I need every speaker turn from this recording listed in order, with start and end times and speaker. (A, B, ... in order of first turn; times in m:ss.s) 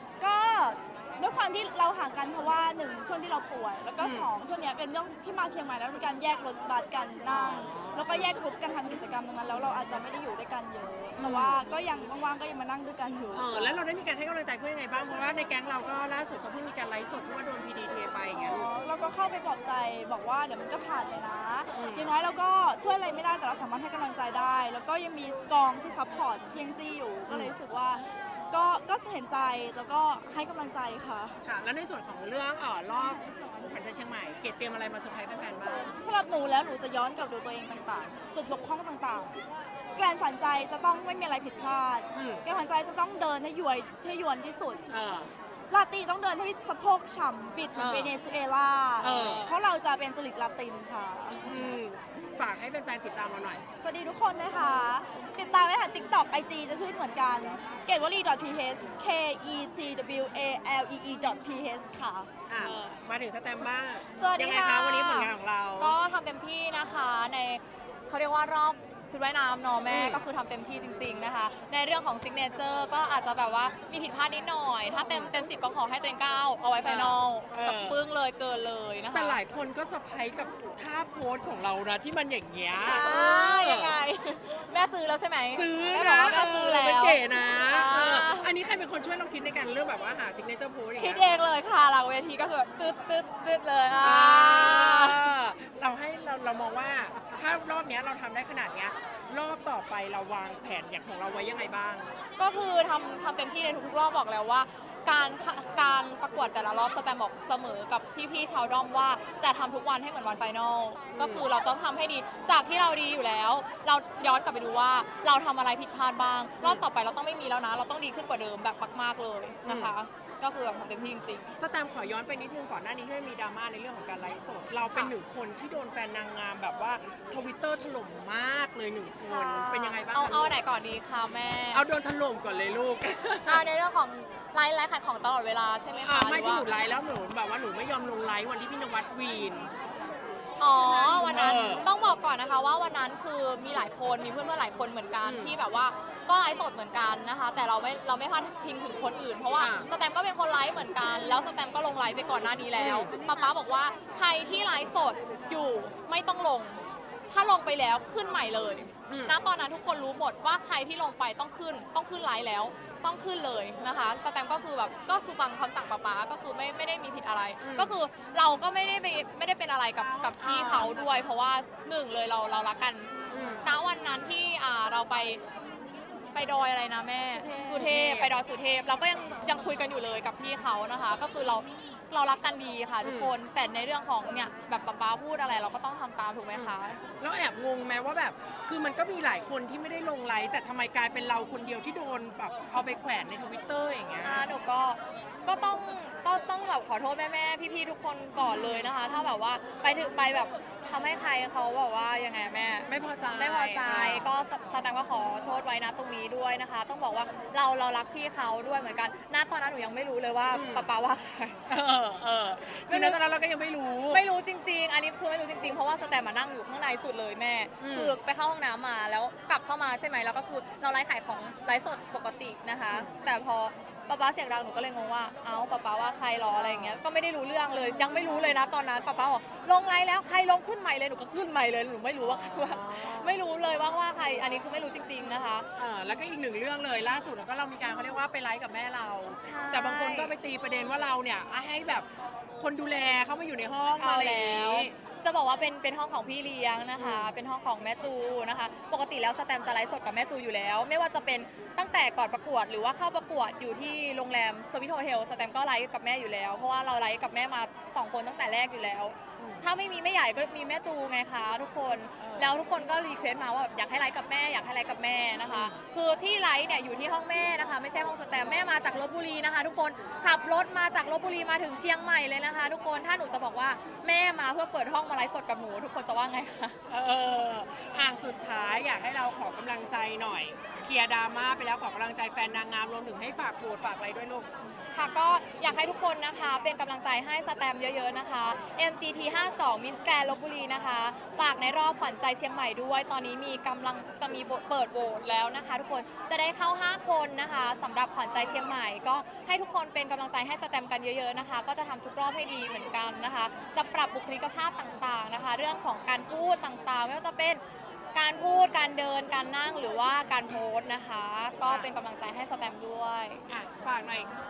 0:00.2-0:13.8 A
0:04.0-0:04.3 B
0:07.3-0:08.3 B
0:11.2-0:11.6 B
0:13.3-0:18.7 B
0:18.4-0:31.4 A
0:21.7-0:22.1 B
0:27.3-0:27.5 B
0:31.4-0:35.9 B
0:36.0-0:39.3 A
0:39.9-0:44.8 A
0:42.1-0:42.4 B
0:44.9-0:45.3 B
0:45.7-0:51.6 A
0:47.7-0:48.1 B
0:49.0-0:49.5 B
0:51.4-0:53.6 B
0:53.8-1:02.3 A
1:02.5-1:06.0 B
1:02.6-1:02.9 C
1:04.1-1:19.4 C
1:09.9-1:10.2 B
1:15.1-1:15.3 B
1:16.8-1:18.0 B
1:19.1-1:24.0 B
1:22.8-1:28.5 C
1:25.5-1:31.2 B
1:31.0-1:35.2 C
1:34.0-1:42.1 B
1:42.4-2:01.5 C
1:51.1-1:51.5 B
1:59.6-1:59.9 B
2:01.6-2:10.5 B
2:09.2-2:11.8 C
2:11.7-2:13.6 B
2:13.5-2:16.6 C
2:16.0-2:19.7 B
2:20.6-2:53.1 C
2:21.1-2:21.9 B
2:25.2-2:25.6 B
2:29.6-2:29.9 B
2:32.8-2:33.1 B
2:39.1-2:39.4 B
2:47.6-2:47.9 B
2:50.4-2:51.0 B
2:53.3-2:53.7 B
2:53.6-2:55.4 C
2:56.3-3:07.0 C
2:57.5-2:58.3 B
3:03.0-3:03.3 B
3:06.5-3:14.5 B
3:14.2-3:31.6 C
3:18.6-3:18.9 B
3:22.9-3:24.3 B
3:30.5-3:30.9 B
3:31.7-3:34.2 B
3:32.7-3:33.2 C
3:34.1-3:55.7 C
3:37.8-3:38.2 B
3:46.6-3:47.0 B
3:52.2-3:53.4 B
3:55.8-4:02.1 B
3:59.4-4:00.3 C
4:02.6-4:04.9 B
4:04.0-4:36.8 C
4:07.0-4:07.3 B
4:19.4-4:19.7 B
4:22.2-4:22.5 B
4:25.4-4:25.8 B
4:36.9-4:44.5 B
4:44.9-5:07.6 C
5:08.1-5:13.4 C
5:11.6-5:11.9 B
5:13.5-5:14.3 B